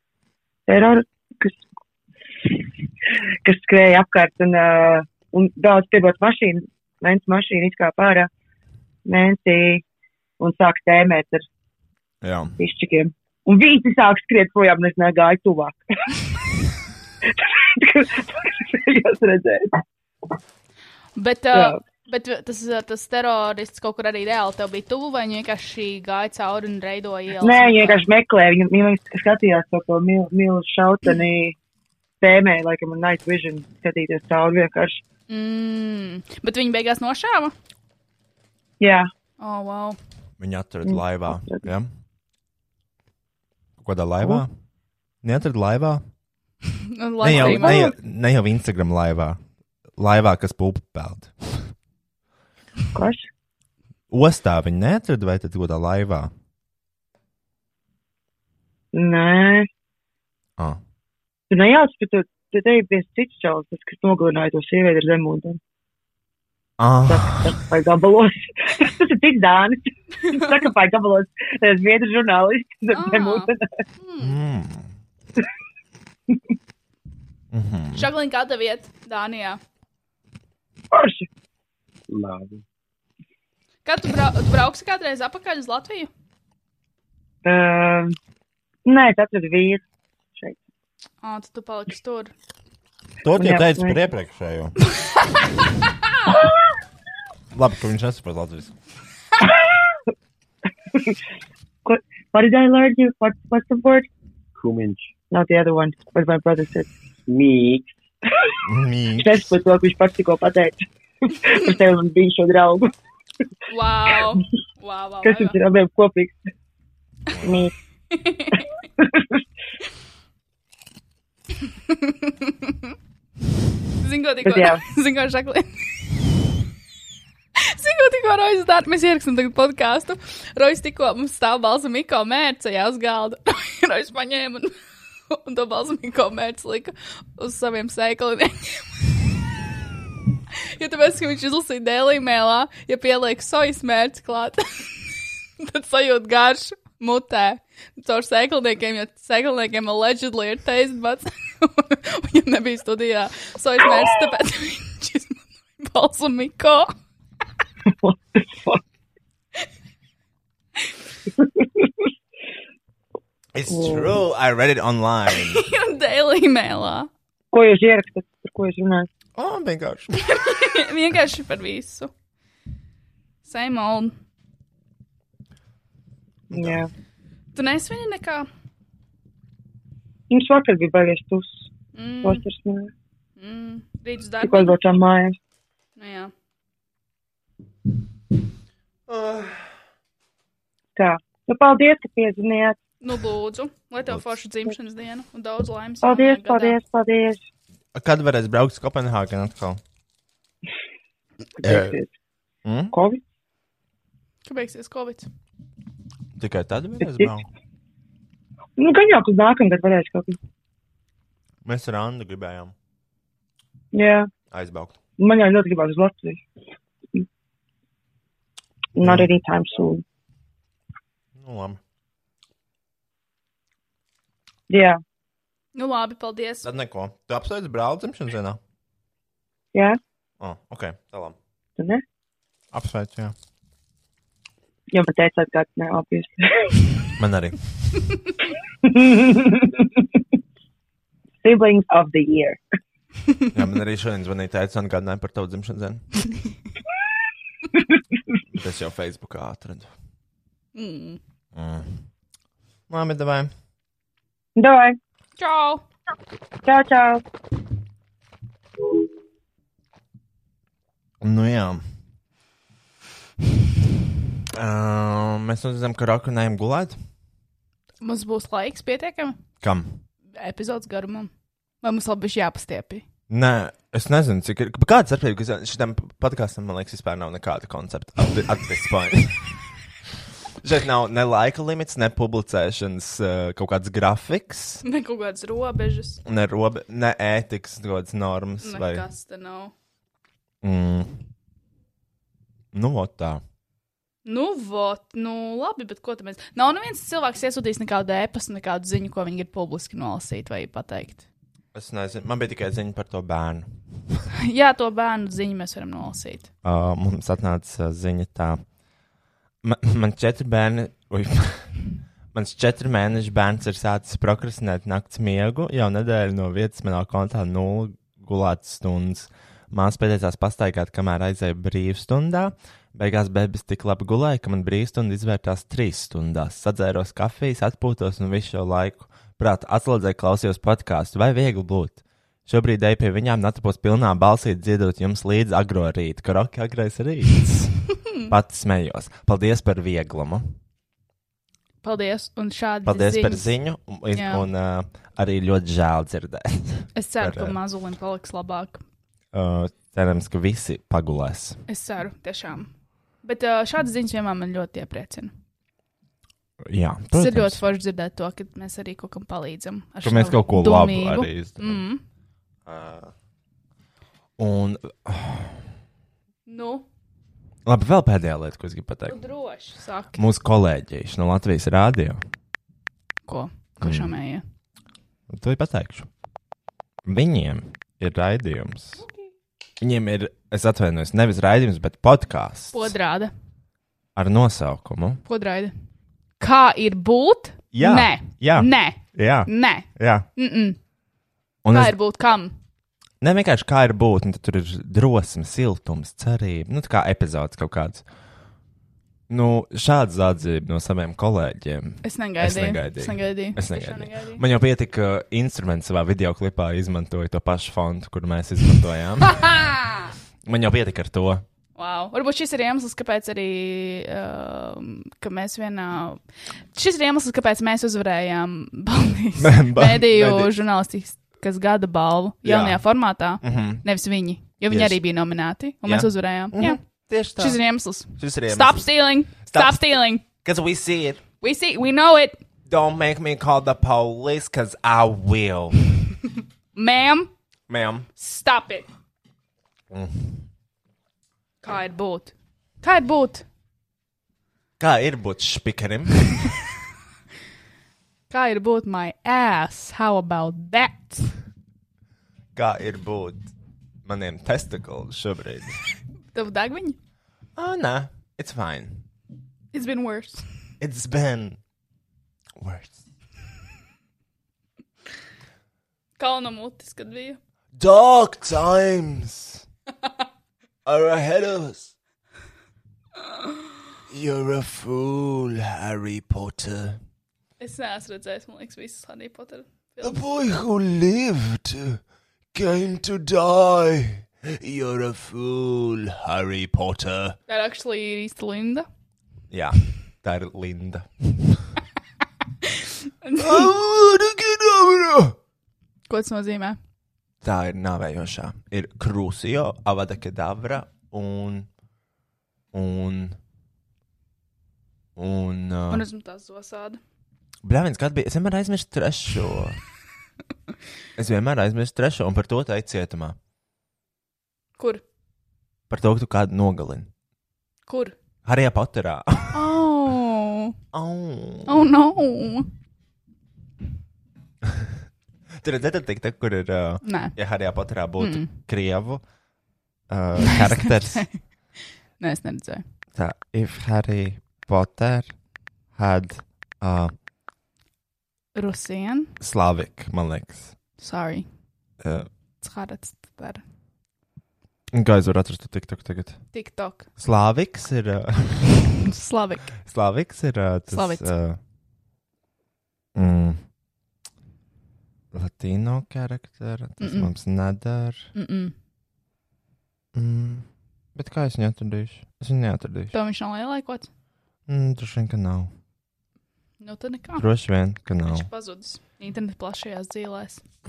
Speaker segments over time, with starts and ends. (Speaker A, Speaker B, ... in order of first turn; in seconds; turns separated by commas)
Speaker A: 0.7-1.6, Speaker A: 3.4-8.3, Speaker A: 9.1-9.8, Speaker A: 10.4-11.4, Speaker B: 12.2-12.6, Speaker A: 12.6-15.8, Speaker A: 17.8-19.8, Speaker C: 21.1-28.0, Speaker A: 21.5-21.8, Speaker A: 27.4-31.6, Speaker A: 32.2-35.0, Speaker C: 35.3-37.5, Speaker A: 38.8-39.1, Speaker C: 39.4-40.0, Speaker B: 40.4-41.9, Speaker A: 40.9-41.6, Speaker B: 43.8-44.5, Speaker B: 45.2-46.0, Speaker C: 46.8-47.9, Speaker B: 47.2-49.4, Speaker A: 47.3-47.8, Speaker B: 50.0-51.7, Speaker A: 52.9-53.3, Speaker B: 54.1-56.3, Speaker A: 58.9-59.7, Speaker A: 61.5-65.6, Speaker B: 66.8-67.6, Speaker A: 67.0-73.6, Speaker C: 70.2-70.6, Speaker C: 72.9-74.4, Speaker B: 74.2-74.9, Speaker B: 77.5-78.1, Speaker C: 77.9-79.6, Speaker A: 80.9-81.3, Speaker C: 83.9-86.1, Speaker A: 87.4-88.2, Speaker A: 88.8-89.8, Speaker C: 91.2-92.3, Speaker B: 93.2-94.7, Speaker A: 93.3-94.0, Speaker C: 95.0-95.4, Speaker B: 97.5-98.7, Speaker A: 101.8-104.1, Speaker A: 105.3-106.9, Speaker B: 108.6-109.5, Speaker A: 109.2-112.9, Speaker C: 113.7-115.6, Speaker A: 114.1-114.4, Speaker A: 115.2-116.4, Speaker A: 117.4-117.7, Speaker C: 118.1-118.7, Speaker A: 119.0-119.4, Speaker C: 121.9-122.9, Speaker C: 124.0-125.7, Speaker A: 124.4-124.8, Speaker C: 127.6-134.7, Speaker C: 135.3-138.9, Speaker C: 140.7-144.9, Speaker C: 145.6-156.9, Speaker A: 158.0-158.8, Speaker B: 163.6-165.6, Speaker A: 163.7-164.2, Speaker C: 165.3-167.1, Speaker A: 167.5-169.1, Speaker B: 169.4-170.3, Speaker C: 170.2-172.1, Speaker C: 173.4-174.2, Speaker A: 176.5-176.9, Speaker B: 176.5-176.8, Speaker C: 177.6-178.5, Speaker A: 180.3-181.7, Speaker C: 181.9-182.4, Speaker A: 182.2-182.9, Speaker C: 183.4-184.8, Speaker A: 184.4-185.4, Speaker C: 186.0-186.3, Speaker B: 189.1-189.5, Speaker A: 190.9-192.8, Speaker C: 193.0-196.8, Speaker A: 196.0-197.4, Speaker B: 197.9-199.8, Speaker A: 201.6-202.1, Speaker B: 202.7-202.9, Speaker A: 202.9-203.2, Speaker C: 204.4-205.3, Speaker B: 206.4-207.5, Speaker A: 207.0-207.3, Speaker A: 208.8-210.4, Speaker B: 211.7-212.7, Speaker A: 213.9-214.3, Speaker B: 214.5-215.0, Speaker A: 215.2-216.4, Speaker A: 218.9-220.0, Speaker B: 219.0-219.3, Speaker B: 221.4-221.8, Speaker A: 224.7-225.0, Speaker C: 225.7-226.7, Speaker B: 226.7-228.6, Speaker A: 229.7-230.0, Speaker B: 230.4-231.4, Speaker A: 231.8-232.0, Speaker B: 232.7-233.3, Speaker A: 234.9-236.8, Speaker B: 237.2-237.6, Speaker A: 238.8-239.9, Speaker A: 241.4-242.6, Speaker B: 243.5-246.0, Speaker B: 248.5-249.9, Speaker C: 250.7-251.2, Speaker B: 251.6-251.9, Speaker B: 252.9-253.5, Speaker A: 254.6-255.0, Speaker C: 255.4-255.8, Speaker A: 256.6-257.2, Speaker B: 261.2-261.8, Speaker B: 264.5-267.0, Speaker C: 268.0-269.4, Speaker B: 269.6-270.0, Speaker C: 270.4-271.3, Speaker C: 271.8-273.1, Speaker B: 273.3-279.5, Speaker B: 280.6-284.8, Speaker C: 284.8-286.2, Speaker B: 286.2-289.1, Speaker C: 288.6-289.7, Speaker B: 290.6-291.1, Speaker B: 292.7-293.4, Speaker C: 294.2-301.3, Speaker B: 301.7-304.1, Speaker C: 304.4-306.5, Speaker B: 306.6-308.6, Speaker B: 309.6-311.7, Speaker B: 312.3-337.7, Speaker B: 338.3-340.5, Speaker C: 341.8-343.5, Speaker B: 342.9-347.6, Speaker C: 344.1-344.5, Speaker C: 346.9-348.8, Speaker B: 349.3-351.6, Speaker C: 351.7-352.7, Speaker C: 353.2-355.3, Speaker B: 356.6-357.6, Speaker C: 357.1-362.0, Speaker B: 360.0-361.8, Speaker B: 362.7-363.1, Speaker B: 364.4-365.6, Speaker C: 366.5-366.9, Speaker B: 367.6-369.2, Speaker C: 369.1-370.2, Speaker B: 370.1-372.2, Speaker C: 373.3-374.4, Speaker B: 373.8-374.1, Speaker B: 375.3-376.1, Speaker B: 377.1-379.0, Speaker C: 379.0-379.3, Speaker B: 379.8-382.9, Speaker C: 382.7-383.3, Speaker B: 384.1-385.2, Speaker C: 385.3-385.7, Speaker C: 386.4-390.8, Speaker B: 387.7-390.3, Speaker B: 391.6-391.9, Speaker C: 391.7-392.5, Speaker B: 393.2-398.0, Speaker B: 399.3-409.4, Speaker C: 402.0-404.4, Speaker C: 409.3-410.1, Speaker B: 410.4-411.4, Speaker C: 411.8-416.2, Speaker C: 416.7-430.2, Speaker B: 419.4-420.5, Speaker B: 422.4-422.8, Speaker B: 423.4-423.9, Speaker B: 424.7-425.0, Speaker B: 425.8-427.6, Speaker B: 428.1-428.9, Speaker B: 429.4-431.2, Speaker C: 431.4-432.4, Speaker B: 432.7-435.8, Speaker C: 436.7-437.3, Speaker B: 437.7-438.1, Speaker C: 438.2-438.9, Speaker B: 439.9-440.4, Speaker C: 441.6-443.4, Speaker B: 444.8-446.4, Speaker C: 448.3-451.3, Speaker B: 452.6-453.5, Speaker B: 454.1-455.8, Speaker C: 456.3-457.0, Speaker B: 457.6-459.1, Speaker C: 459.7-460.4, Speaker B: 460.8-461.6, Speaker B: 462.6-463.0, Speaker C: 466.2-467.4, Speaker B: 467.7-469.6, Speaker B: 470.9-471.9, Speaker B: 474.1-477.0, Speaker C: 477.6-480.2, Speaker B: 480.0-482.0, Speaker B: 482.5-487.4, Speaker C: 487.5-488.9, Speaker B: 489.5-491.7, Speaker C: 492.6-493.7, Speaker B: 493.4-495.4, Speaker C: 496.1-496.8, Speaker B: 497.4-501.7, Speaker B: 502.7-503.4, Speaker B: 505.2-506.1, Speaker C: 505.9-507.0, Speaker B: 507.6-509.8, Speaker B: 511.1-513.4, Speaker B: 515.9-517.1, Speaker C: 517.9-518.1, Speaker B: 518.4-519.7, Speaker C: 519.5-520.7, Speaker B: 520.9-521.9, Speaker C: 521.7-522.7, Speaker B: 525.6-529.2, Speaker C: 527.0-527.4, Speaker C: 528.2-528.5, Speaker B: 530.1-531.3, Speaker C: 530.4-531.4, Speaker C: 532.2-532.8, Speaker B: 533.1-535.3, Speaker B: 535.9-537.1, Speaker C: 538.5-539.3, Speaker B: 539.4-540.7, Speaker C: 541.0-541.5, Speaker B: 542.0-542.3, Speaker C: 542.6-543.6, Speaker B: 544.9-546.4, Speaker C: 546.5-547.1, Speaker B: 547.2-548.8, Speaker C: 549.0-549.8, Speaker B: 549.8-551.6, Speaker C: 550.9-551.3, Speaker B: 553.1-553.6, Speaker B: 555.3-558.3, Speaker C: 557.0-557.3, Speaker C: 558.4-558.7, Speaker B: 560.1-563.1, Speaker C: 563.1-564.1, Speaker B: 564.7-565.7, Speaker C: 566.8-567.4, Speaker B: 567.4-568.5, Speaker C: 568.3-570.6